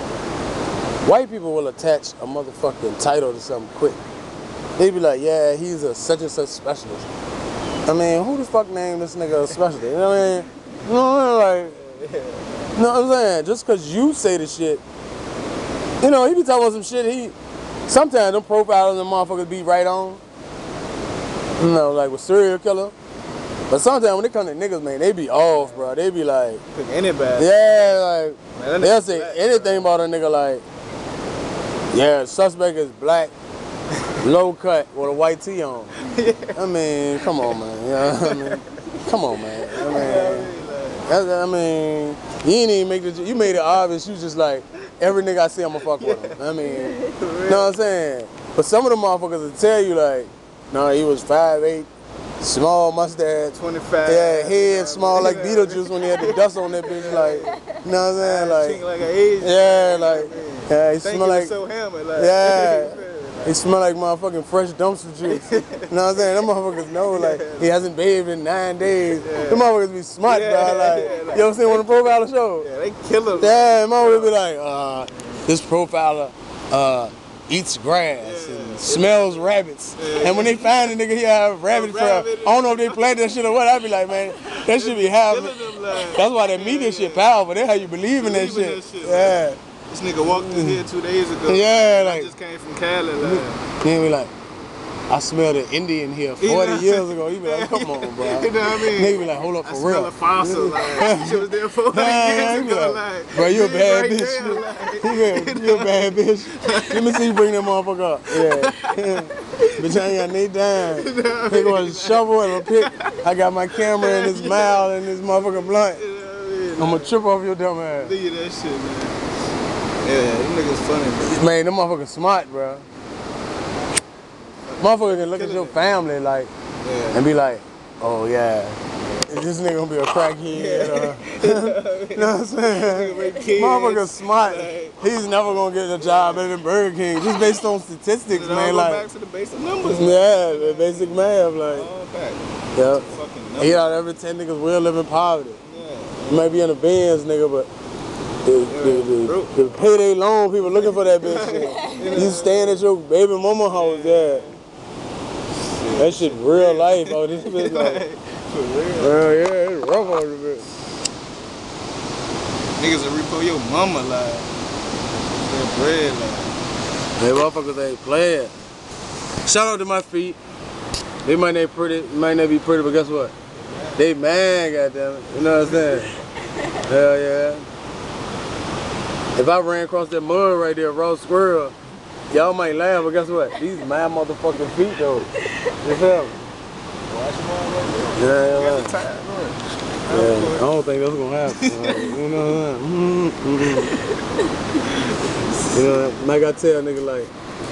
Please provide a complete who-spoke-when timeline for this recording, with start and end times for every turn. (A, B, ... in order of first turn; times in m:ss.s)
0:01.0-0:04.0 A
0:04.8-0:07.1 A
0:07.9-0:11.8 A
0:11.8-0:12.6 B
0:12.8-0:14.8 A
0:16.0-0:17.4 A
0:17.9-0:20.2 A
0:21.6-0:22.9 A
0:23.7-0:26.6 A
0:26.7-0:27.6 B
0:27.4-0:30.6 A
0:28.6-0:29.9 B
0:31.9-0:33.3 A
0:34.2-0:36.0 A
0:36.0-0:36.6 B
0:36.6-0:40.5 A
0:37.2-0:37.6 B
0:38.2-0:38.6 B
0:39.7-0:41.1 B
0:41.1-0:51.9 A
0:46.0-0:46.4 B
0:47.0-0:47.7 B
0:52.4-0:58.8 A
0:53.5-0:57.6 B
0:58.2-1:03.6 B
0:59.4-1:01.6 A
1:02.2-1:12.7 A
1:05.2-1:07.7 B
1:09.0-1:09.7 B
1:10.2-1:14.3 B
1:13.3-1:29.6 A
1:18.2-1:20.9 B
1:21.7-1:23.6 B
1:24.1-1:27.3 B
1:28.2-1:33.6 B
1:30.3-1:30.8 A
1:31.5-1:32.3 A
1:33.2-1:34.3 A
1:35.1-1:56.0 A
1:36.4-1:47.3 B
1:48.3-1:50.2 B
1:50.7-1:57.2 B
1:56.8-1:58.2 A
1:57.9-1:59.2 B
2:00.0-2:01.5 B
2:01.2-2:02.8 A
2:04.4-2:06.1 B
2:04.8-2:06.5 A
2:06.8-2:07.2 B
2:07.1-2:19.0 A
2:10.5-2:16.5 B
2:18.3-2:24.0 B
2:19.9-2:21.9 A
2:22.8-2:25.6 A
2:25.6-2:26.5 B
2:26.3-2:27.7 A
2:28.4-2:34.5 A
2:28.7-2:29.8 B
2:30.6-2:32.8 B
2:33.7-2:34.6 B
2:35.6-2:39.4 B
2:36.0-2:38.0 A
2:39.0-2:40.7 A
2:42.8-2:44.5 B
2:45.4-2:46.6 B
2:47.2-2:48.5 A
2:49.4-2:50.4 A
2:51.2-2:53.3 A
2:54.0-2:56.2 A
2:55.6-2:56.1 B
2:56.8-2:57.6 A
2:59.4-3:01.8 A
3:02.3-3:06.5 A
3:07.1-3:10.7 B
3:08.2-3:09.0 A
3:10.1-3:14.0 A
3:11.5-3:12.2 B
3:14.8-3:16.1 B
3:15.7-3:17.3 A